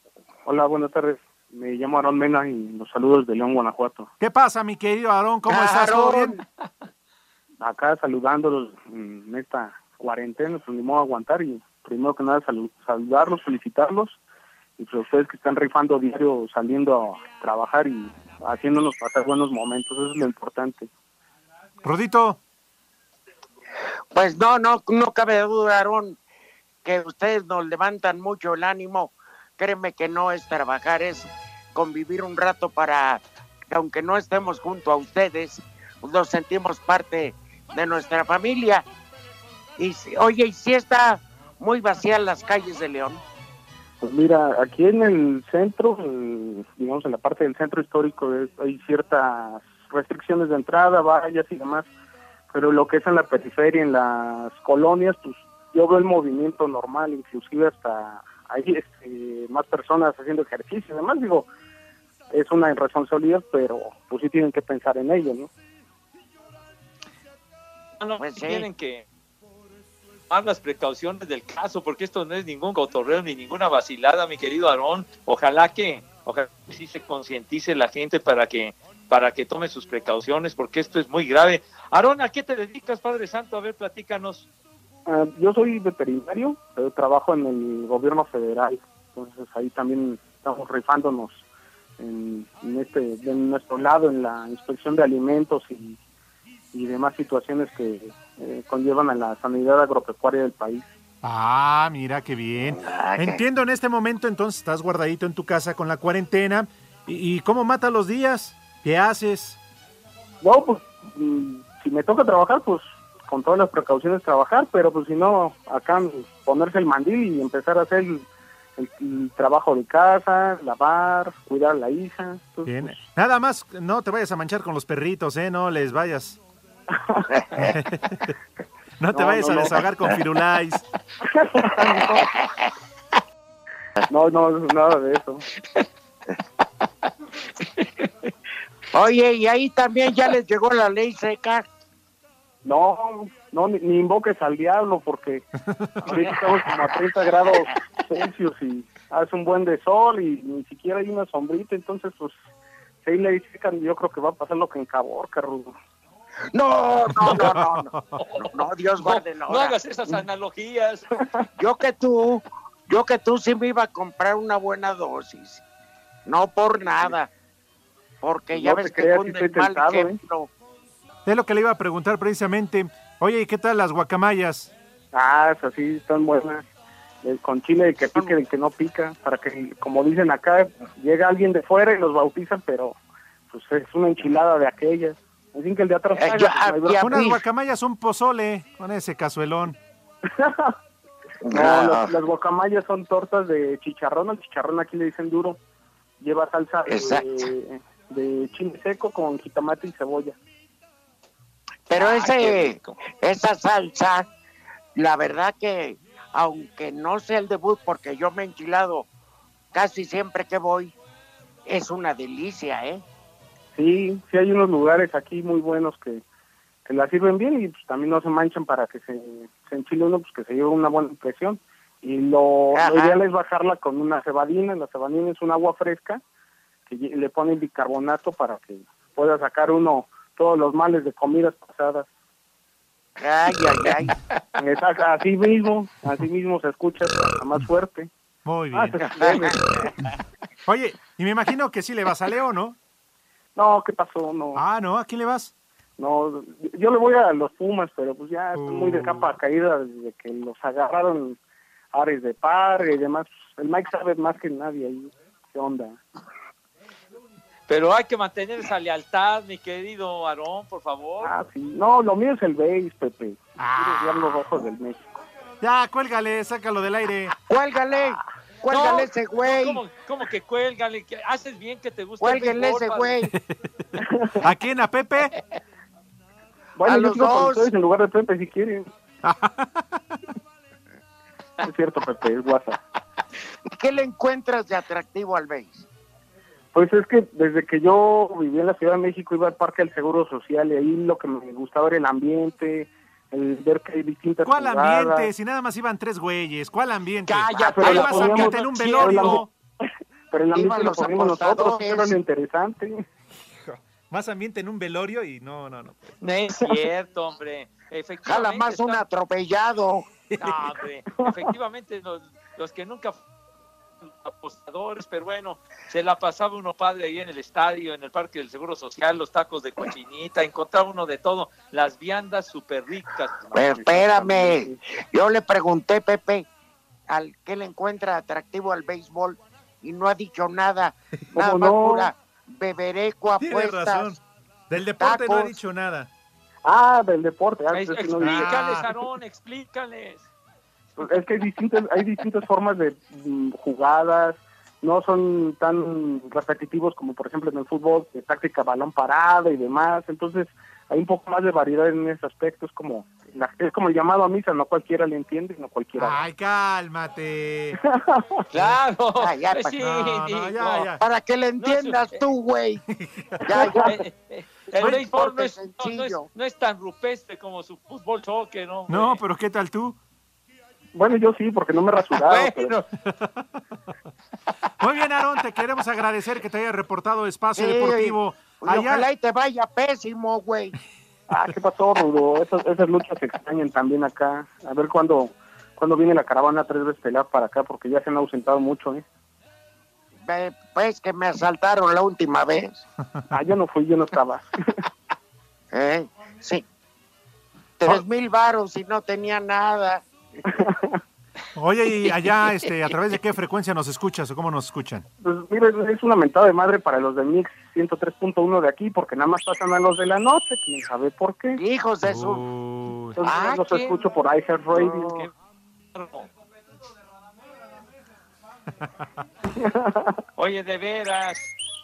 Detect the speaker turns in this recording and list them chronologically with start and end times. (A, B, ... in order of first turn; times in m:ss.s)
0:00.4-0:04.1 A
0:04.2-0:06.4 B
0:05.5-0:06.4 C
0:07.6-0:14.2 A
0:14.8-0:20.9 A
0:21.8-0:22.4 B
0:24.1-0:26.2 C
0:26.8-0:38.8 C
0:39.8-0:43.2 C
0:44.0-0:51.9 A
0:52.5-1:01.5 A
1:02.3-1:05.5 A
1:08.0-1:09.0 D
1:08.2-1:08.7 C
1:10.3-1:24.5 D
1:25.1-1:31.4 A
1:32.0-1:36.0 A
1:36.7-1:40.9 A
1:41.2-1:49.6 B
1:42.6-1:43.4 C
1:50.4-1:58.2 A
1:58.8-2:03.0 A
2:02.6-2:06.4 B
2:06.9-2:07.3 A
2:07.4-2:07.7 C
2:07.5-2:08.4 B
2:09.0-2:10.8 B
2:09.1-2:09.9 A
2:11.2-2:12.3 A
2:12.2-2:12.6 C
2:14.1-2:15.4 A
2:15.6-2:15.8 D
2:17.6-2:18.1 D
2:18.9-2:21.6 C
2:22.6-2:25.5 A
2:25.7-2:26.2 B
2:26.0-2:32.4 A
2:33.0-2:35.7 A
2:36.5-2:40.2 C
2:37.1-2:38.2 B
2:38.2-2:41.0 D
2:41.6-2:45.6 C
2:46.2-2:47.3 C
2:48.2-2:50.5 C
2:48.5-2:50.2 A
2:51.2-2:54.7 B
2:55.1-2:56.6 A
2:57.2-3:03.0 A
3:03.5-3:07.2 A
3:06.2-3:07.4 C
3:07.0-3:09.8 B
3:10.3-3:10.7 A
3:11.5-3:12.2 C
3:11.5-3:15.6 A
3:16.2-3:20.4 A
3:16.9-3:17.5 C
3:21.9-3:24.3 C
3:21.9-3:23.0 D
3:25.0-3:29.1 C
3:29.7-3:30.9 C
3:31.6-3:33.0 C
3:33.7-3:36.2 A
3:36.8-3:46.2 A
3:42.7-3:43.2 C
3:46.9-3:52.1 A
3:53.2-3:54.1 C
3:54.6-3:58.1 A
3:58.4-3:59.0 B
3:58.7-3:59.8 A
3:59.0-3:59.9 C
4:00.7-4:02.8 B
4:03.6-4:04.6 A
4:04.6-4:05.5 B
4:06.0-4:11.4 A
4:08.5-4:09.4 B
4:11.9-4:16.0 A
4:17.7-4:21.3 D
4:21.2-4:25.2 A
4:23.6-4:24.4 B
4:25.6-4:27.3 B
4:27.5-4:29.8 C
4:28.7-4:33.1 D
4:32.2-4:33.3 C
4:33.2-4:35.3 B
4:34.0-4:34.4 A
4:36.8-4:38.9 A
4:36.8-4:37.7 C
4:39.2-4:40.0 B
4:41.6-4:42.8 A
4:43.7-4:45.8 C
4:46.7-4:55.3 A
4:54.4-4:59.5 B
4:57.2-4:59.4 D
4:57.6-4:59.4 A
5:00.3-5:03.0 A
5:00.5-5:02.2 C
5:03.4-5:06.1 B
5:06.2-5:09.0 D
5:08.2-5:10.0 C
5:10.3-5:10.7 B
5:10.4-5:13.2 D
5:14.0-5:24.0 D
5:23.5-5:26.5 C
5:23.7-5:24.8 A
5:27.1-5:34.1 C
5:31.3-5:32.1 A
5:33.4-5:36.1 B
5:35.0-5:35.5 C
5:36.6-5:38.7 A
5:37.7-5:40.2 D
5:38.2-5:38.9 B
5:41.0-5:56.2 A
5:56.0-5:57.8 B
5:57.8-5:58.4 A
5:58.5-6:00.9 D
5:59.2-5:59.8 C
5:59.8-6:01.0 B
6:01.0-6:02.8 C
6:01.6-6:02.2 D
6:02.9-6:03.6 B
6:03.4-6:03.9 A
6:03.5-6:03.9 C
6:03.6-6:09.2 D
6:04.8-6:06.2 C
6:04.8-6:05.0 B
6:08.9-6:10.0 B
6:10.9-6:12.8 A
6:12.2-6:12.8 D
6:13.0-6:13.5 B
6:14.8-6:19.1 B
6:17.6-6:20.8 C
6:21.3-6:29.0 A
6:30.2-6:32.8 C
6:33.3-6:34.6 A
6:35.7-6:36.6 C
6:37.8-6:40.0 C
6:40.6-6:41.0 A
6:41.5-6:45.0 B
6:45.2-6:51.6 A
6:51.6-6:52.4 C
6:52.0-6:53.2 B
6:53.2-6:55.3 A
6:53.2-6:54.0 C
6:53.2-6:54.0 D
6:54.7-6:55.0 C
6:54.7-6:55.3 D
6:55.9-6:56.3 D
6:59.6-7:00.2 A
7:00.4-7:01.5 D